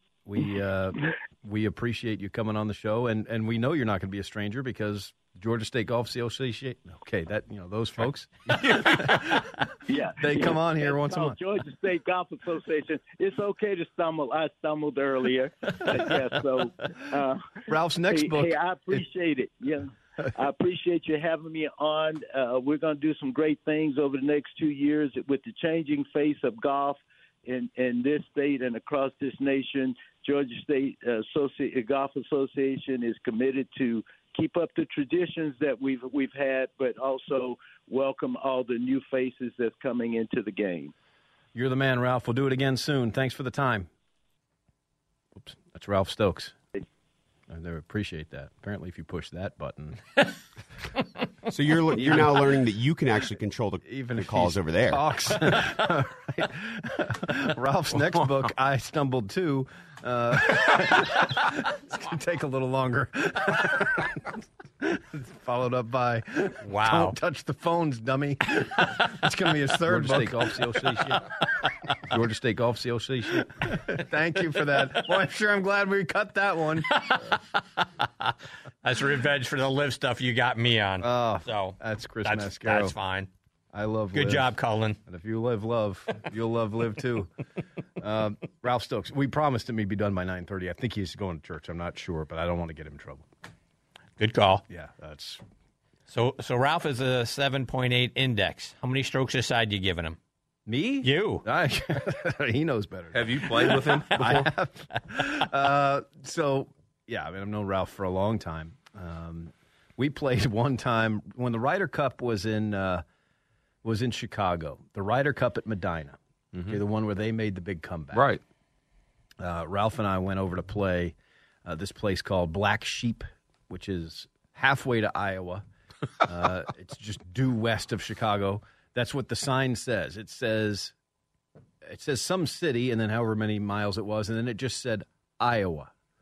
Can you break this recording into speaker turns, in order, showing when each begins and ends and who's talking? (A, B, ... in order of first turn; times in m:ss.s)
0:00.2-0:09.6 A
0:08.6-0:09.1 B
0:09.9-0:40.9 C
0:10.2-0:11.4 A
0:17.7-0:19.0 A
0:41.5-0:43.9 A
0:45.4-0:46.6 A
0:47.5-0:50.0 A
0:51.5-0:55.0 D
0:52.0-0:52.4 A
0:53.8-1:11.3 A
1:06.6-1:07.2 E
1:12.0-1:17.1 A
1:18.8-1:23.3 E
1:21.0-1:22.9 A
1:23.7-1:24.5 A
1:24.1-1:25.0 E
1:25.0-1:27.3 A
1:28.0-1:33.3 A
1:34.2-1:34.6 E
1:34.7-1:35.4 A
1:36.1-1:40.2 E
1:40.6-1:53.0 A
1:41.0-1:41.4 E
1:43.1-1:44.5 B
1:53.8-1:58.2 A
1:56.5-1:56.8 B
1:58.1-1:58.4 B
1:59.4-2:05.6 A
2:06.2-2:10.9 A
2:11.8-2:15.9 A